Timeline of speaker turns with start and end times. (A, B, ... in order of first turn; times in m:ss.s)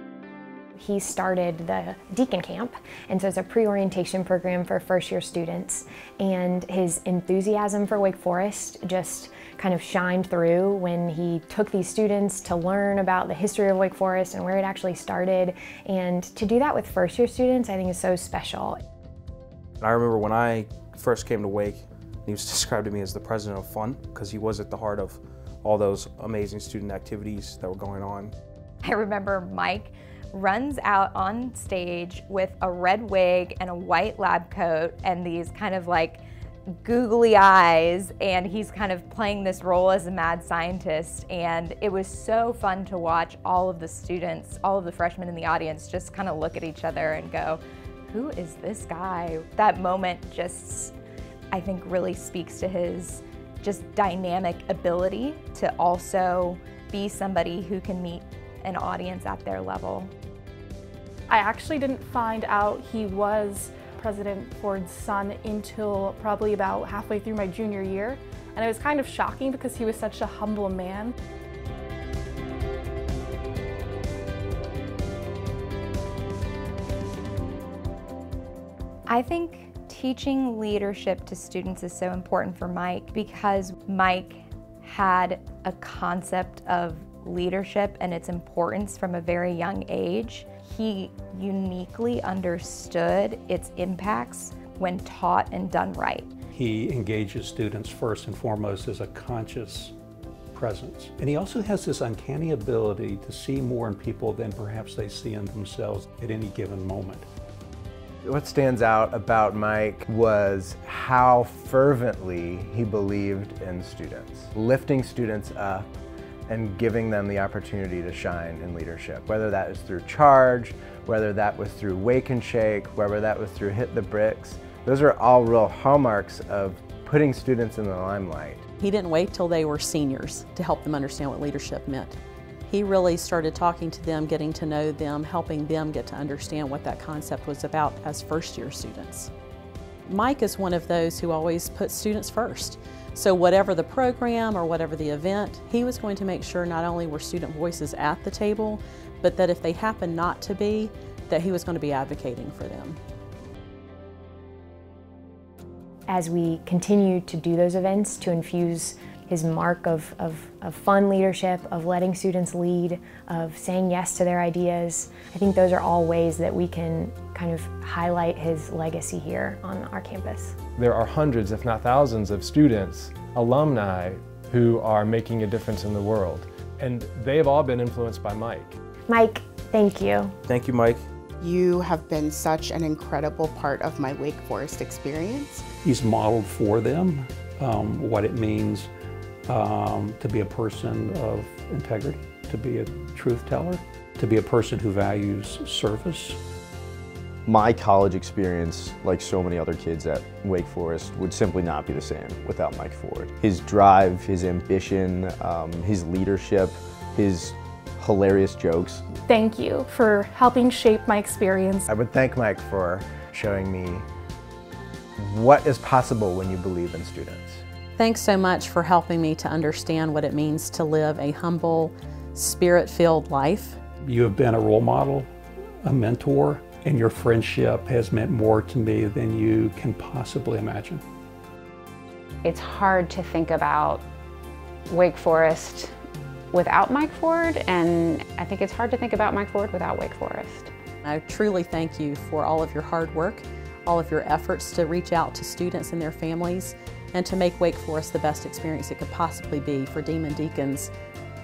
0:00.8-0:18.8 A
0:19.8-0:28.3 B
0:28.8-0:36.2 C
0:36.8-0:50.9 C
0:51.5-1:00.1 C
1:01.3-1:11.1 D
1:19.1-1:36.3 C
1:36.5-1:39.9 E
1:40.5-1:47.3 E
1:48.2-1:55.9 F
1:56.5-2:08.6 F
2:08.8-2:19.3 G
2:20.1-2:33.0 G
2:36.1-2:50.6 A
2:50.8-2:58.8 H
2:59.1-3:00.3 A
3:00.4-3:01.0 B
3:01.4-3:05.6 I
3:05.8-3:08.9 E
3:09.5-3:16.4 E
3:17.4-3:29.0 J
3:29.3-3:31.9 D
3:31.9-3:34.0 F
3:35.2-3:37.6 F
3:38.0-3:43.8 G
3:44.0-3:45.3 E
3:45.8-3:51.0 E
3:52.4-3:54.0 K
3:54.9-3:55.9 K
3:56.5-4:00.7 K
4:01.0-4:10.9 G